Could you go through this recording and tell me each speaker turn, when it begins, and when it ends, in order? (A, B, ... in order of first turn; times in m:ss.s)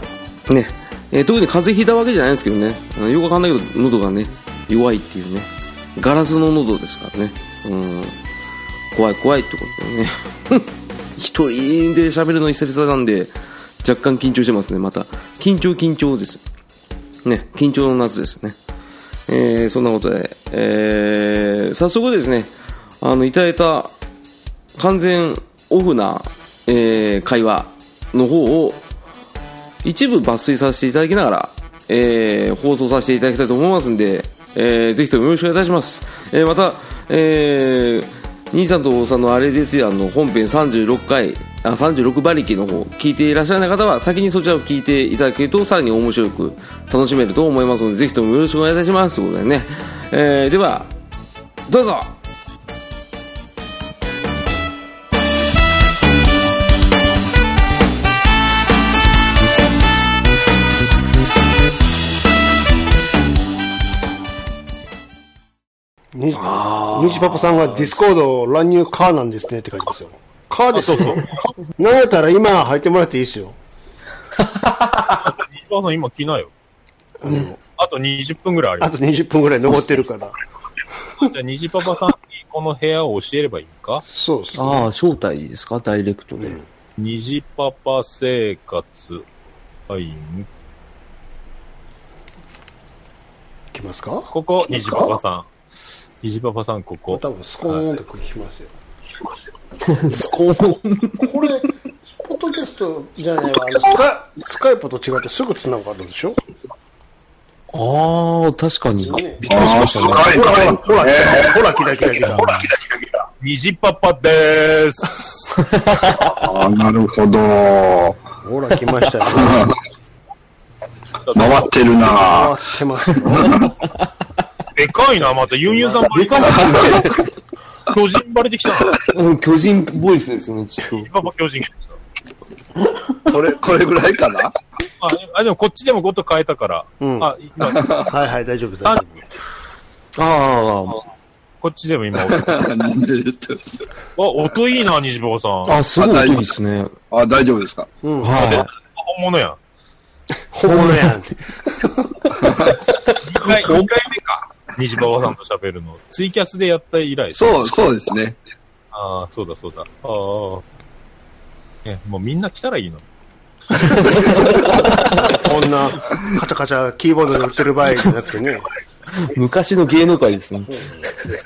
0:00.5-0:08.1 A
0:08.9-0:16.4 A
0:17.2-0:18.6 A
0:19.3-0:23.9 A
0:24.8-0:28.8 A
0:29.8-0:50.9 A
0:51.7-0:52.1 A
1:06.1-1:13.6 B
1:06.4-1:07.9 A
1:10.7-1:11.5 C
1:14.5-1:15.1 A
1:15.2-1:16.5 C
1:17.2-1:17.6 B
1:17.8-1:18.9 C
1:18.8-1:20.4 B
1:21.2-1:24.0 C
1:24.0-1:24.9 B
1:24.5-1:26.6 A
1:26.4-1:26.6 B
1:27.0-1:29.3 C
1:29.9-1:30.5 C
1:33.7-1:35.0 B
1:34.3-1:35.5 C
1:36.2-1:37.8 C
1:37.1-1:38.7 B
1:39.8-1:41.3 A
1:41.2-1:46.4 B
1:47.7-1:50.4 A
1:49.0-1:52.7 B
1:49.4-1:51.6 D
1:53.4-1:55.6 C
1:55.6-1:56.3 A
1:56.3-1:58.2 D
1:58.4-1:59.7 B
1:59.2-1:59.7 D
2:01.2-2:01.8 C
2:01.3-2:02.6 D
2:02.0-2:03.5 B
2:03.2-2:03.7 D
2:04.7-2:07.0 C
2:06.1-2:07.3 A
2:07.9-2:09.0 C
2:09.1-2:11.1 A
2:10.9-2:12.0 C
2:12.8-2:13.1 A
2:13.3-2:14.5 D
2:15.0-2:18.1 C
2:17.0-2:17.3 B
2:17.6-2:18.1 D
2:18.1-2:19.2 B
2:20.2-2:21.0 A
2:21.6-2:22.6 C
2:22.3-2:23.7 D
2:24.2-2:25.8 C
2:25.6-2:26.9 A
2:25.9-2:26.5 D
2:27.1-2:27.9 D
2:28.0-2:28.5 B
2:28.2-2:28.7 A
2:28.4-2:29.6 C
2:30.5-2:32.1 B
2:30.7-2:31.1 A
2:32.4-2:32.8 D
2:33.1-2:33.9 A
2:33.2-2:37.8 C
2:37.3-2:38.4 D
2:38.9-2:40.6 C
2:41.8-2:43.0 C
2:43.8-2:45.4 A
2:45.3-2:48.7 B
2:49.2-2:50.8 A